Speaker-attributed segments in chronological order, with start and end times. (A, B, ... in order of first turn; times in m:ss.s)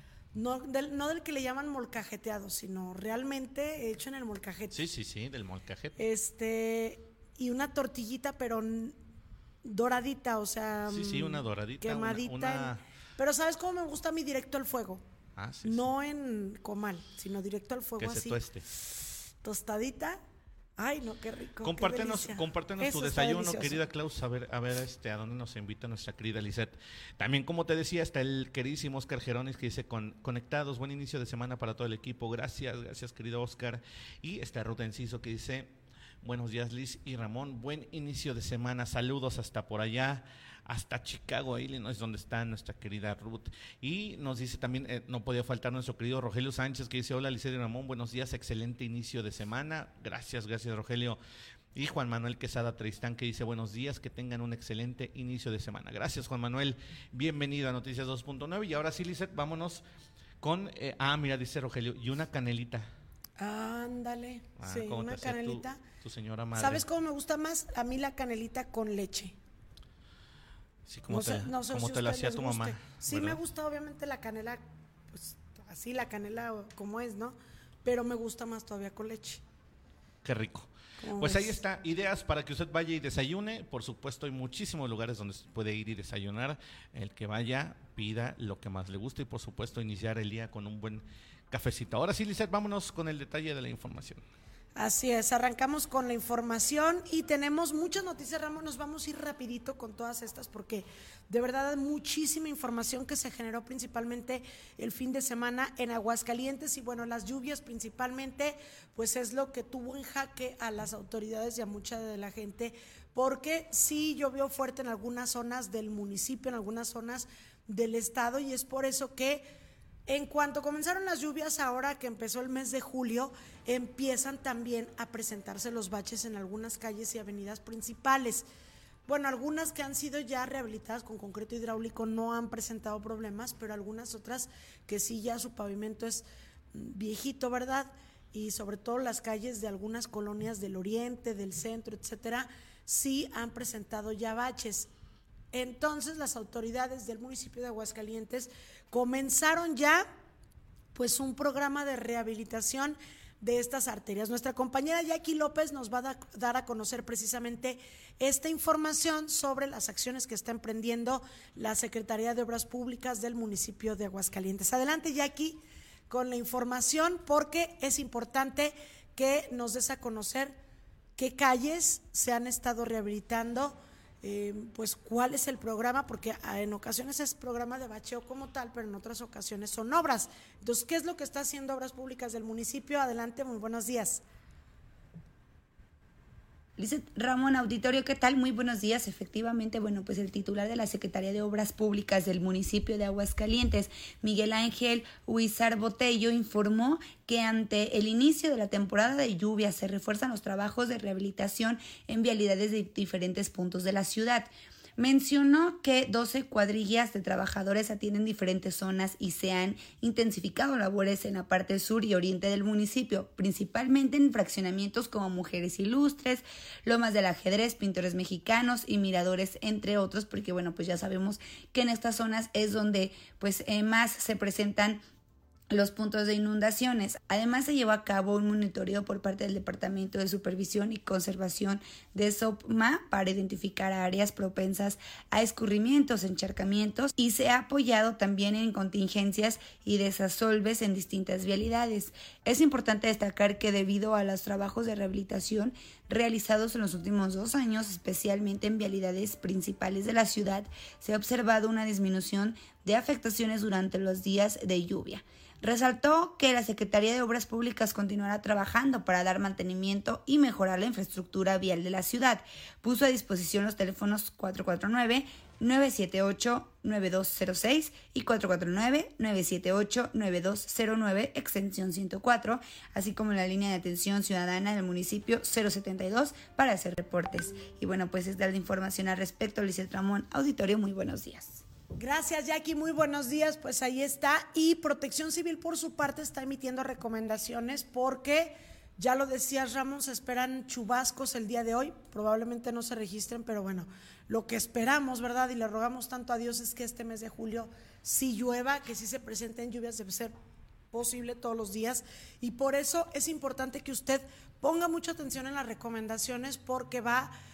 0:00.3-0:04.8 A
0:04.7-0:06.0 B
0:06.0-0:09.0 A
0:09.6-0:15.0 A
0:10.9-0:12.8 B
0:15.4-0:15.9 B
0:15.6-0:18.4 A
0:18.0-0:18.7 B
0:19.4-0:20.2 A
0:20.8-0:23.8 A
0:21.6-0:35.7 B
0:36.2-0:51.2 B
0:51.8-0:59.8 B
1:00.4-1:02.9 B
1:03.4-1:05.8 A
1:04.6-1:06.8 B
1:06.6-1:09.4 A
1:10.9-1:13.4 B
1:11.1-1:19.4 A
1:20.2-1:34.2 B
1:21.0-1:21.6 A
1:34.8-1:59.5 A
2:00.1-2:08.5 A
2:09.1-2:24.9 A
2:25.5-2:30.1 A
2:31.0-2:50.6 A
2:51.2-3:04.2 A
3:06.8-3:45.0 C
3:45.7-4:41.6 C
4:42.0-5:00.4 A
5:00.9-5:07.3 A